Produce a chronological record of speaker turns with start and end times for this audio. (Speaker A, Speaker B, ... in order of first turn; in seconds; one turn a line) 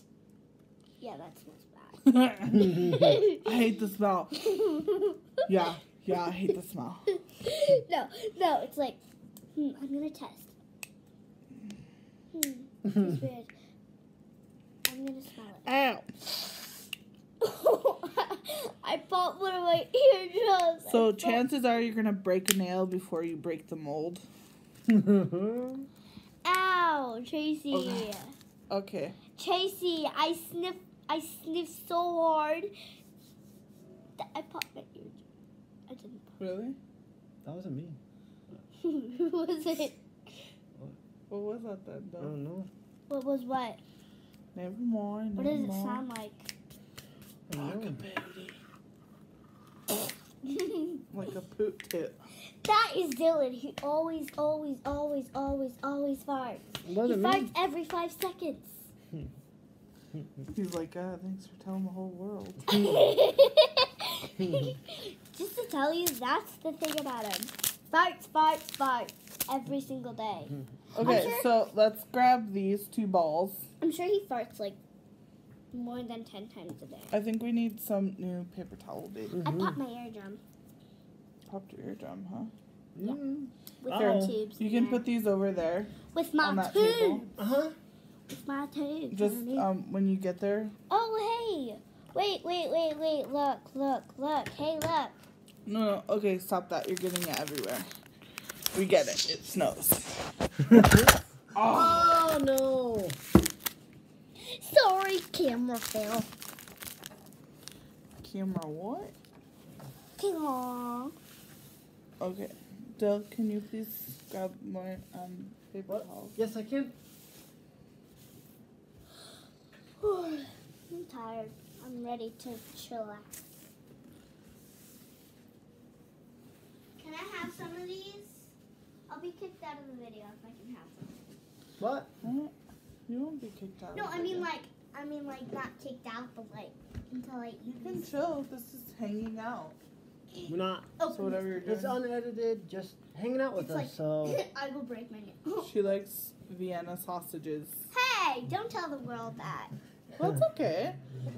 Speaker A: 1.0-3.6
Speaker B: 2.1-4.5
Speaker A: 4.4-5.5
Speaker B: 5.5-7.1
Speaker A: 7.1-9.0
Speaker A: 9.6-10.5
Speaker A: 12.3-13.5
Speaker A: 14.9-15.7
Speaker B: 15.7-16.2
Speaker A: 17.4-21.4
Speaker B: 20.9-24.2
Speaker C: 24.9-25.9
Speaker A: 26.4-28.3
Speaker B: 27.7-28.1
Speaker B: 28.7-29.2
Speaker A: 29.4-32.7
Speaker A: 34.2-35.2
Speaker A: 35.9-36.4
Speaker B: 36.4-36.8
Speaker C: 37.5-38.0
Speaker A: 38.8-40.4
Speaker B: 41.3-42.3
Speaker C: 42.2-42.7
Speaker A: 43.1-43.8
Speaker B: 44.5-46.0
Speaker A: 45.4-46.5
Speaker C: 47.5-48.0
Speaker B: 47.6-48.6
Speaker A: 50.4-51.0
Speaker B: 51.1-52.2
Speaker A: 52.6-58.9
Speaker C: 56.9-57.5
Speaker B: 60.5-62.9
Speaker A: 62.7-71.5
Speaker C: 64.4-64.7
Speaker B: 71.0-73.7
Speaker A: 73.8-74.8
Speaker A: 75.7-77.1
Speaker B: 77.1-79.4
Speaker C: 79.3-79.8
Speaker A: 79.4-80.4
Speaker B: 81.5-82.5
Speaker C: 83.0-84.4
Speaker A: 83.8-85.0
Speaker B: 83.9-87.3
Speaker A: 86.1-87.3
Speaker C: 87.4-87.8
Speaker A: 88.5-89.7
Speaker B: 89.1-90.8
Speaker A: 90.9-95.2
Speaker B: 95.7-97.9
Speaker B: 98.7-100.2
Speaker C: 100.7-103.2
Speaker B: 101.5-102.2
Speaker A: 104.4-106.3
Speaker B: 108.2-109.1
Speaker A: 110.2-111.1
Speaker B: 112.2-116.4
Speaker C: 115.9-116.9
Speaker A: 120.0-123.5
Speaker A: 127.0-128.5
Speaker A: 129.1-131.2
Speaker C: 131.8-132.1
Speaker B: 132.2-132.5
Speaker B: 133.1-134.5
Speaker A: 133.9-138.1
Speaker B: 137.8-139.8
Speaker A: 140.4-141.4
Speaker C: 140.5-144.4
Speaker B: 141.1-142.0
Speaker A: 143.6-145.7
Speaker B: 145.6-147.9
Speaker A: 147.9-149.7
Speaker B: 150.2-151.0